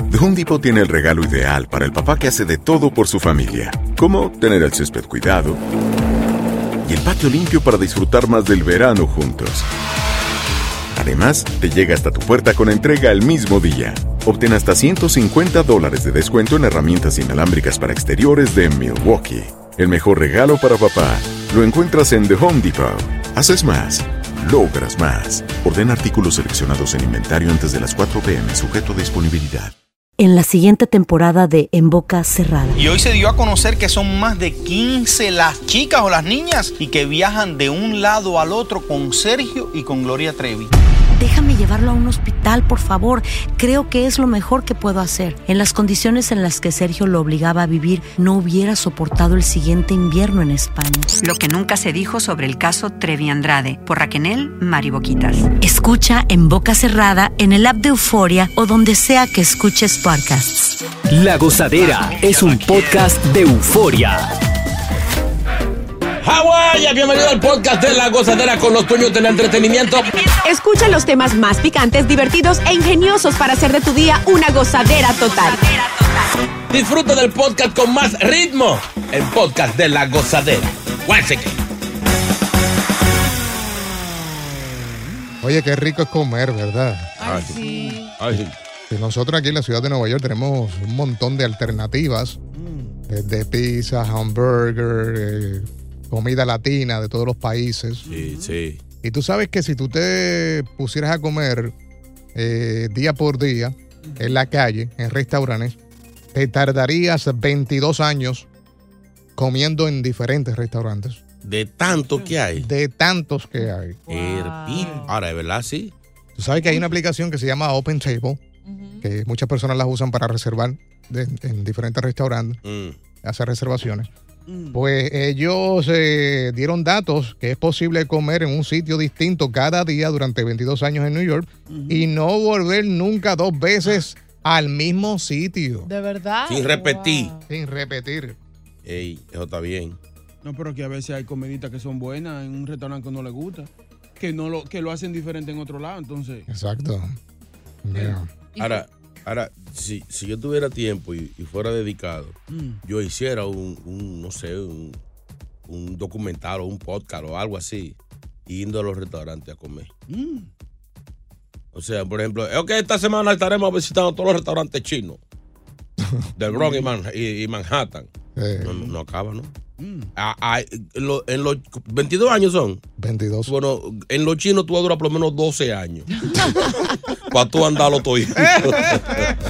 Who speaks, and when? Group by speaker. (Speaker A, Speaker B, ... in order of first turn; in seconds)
Speaker A: 0.1-5.6, 6.8-9.7, 10.9-29.7
Speaker B: 30.2-32.9, 41.2-51.1, 55.6-60.7
Speaker C: 32.8-40.7
Speaker D: 51.2-55.5
Speaker E: 61.1-64.2
Speaker F: 66.2-70.1, 76.7-81.5
Speaker G: 70.4-75.6
Speaker H: 81.1-81.5, 87.2-88.5, 98.1-98.8, 111.4-112.7, 114.1-115.9, 122.6-123.0, 136.5-137.3, 138.8-140.0, 148.6-155.0, 155.7-158.0, 158.5-159.9, 161.7-165.2, 166.4-168.1, 168.6-169.5, 170.2-172.8, 173.5-176.1, 177.3-179.2
Speaker I: 85.4-87.1, 88.9-92.4, 93.1-98.1, 99.0-101.8, 102.3-105.8, 106.3-108.5, 109.4-111.2, 112.6-114.0, 116.4-118.4, 119.0-122.6, 123.2-124.1, 124.7-135.9, 137.5-138.4, 146.5-147.2, 147.8-148.3, 166.0-166.3, 168.4-168.9, 173.0-173.5, 178.4-179.0
Speaker J: 87.2-88.2, 114.1-115.1, 118.7-119.1, 135.8-137.4, 148.6-148.8, 176.2-176.6
Speaker K: 92.5-93.0, 98.0-98.6, 104.0-104.3, 111.9-112.4, 114.8-115.1, 124.5-124.8, 131.7-132.1, 140.4-146.5, 152.5-152.8, 160.1-160.5, 166.5-166.9, 169.8-170.1, 178.4-179.3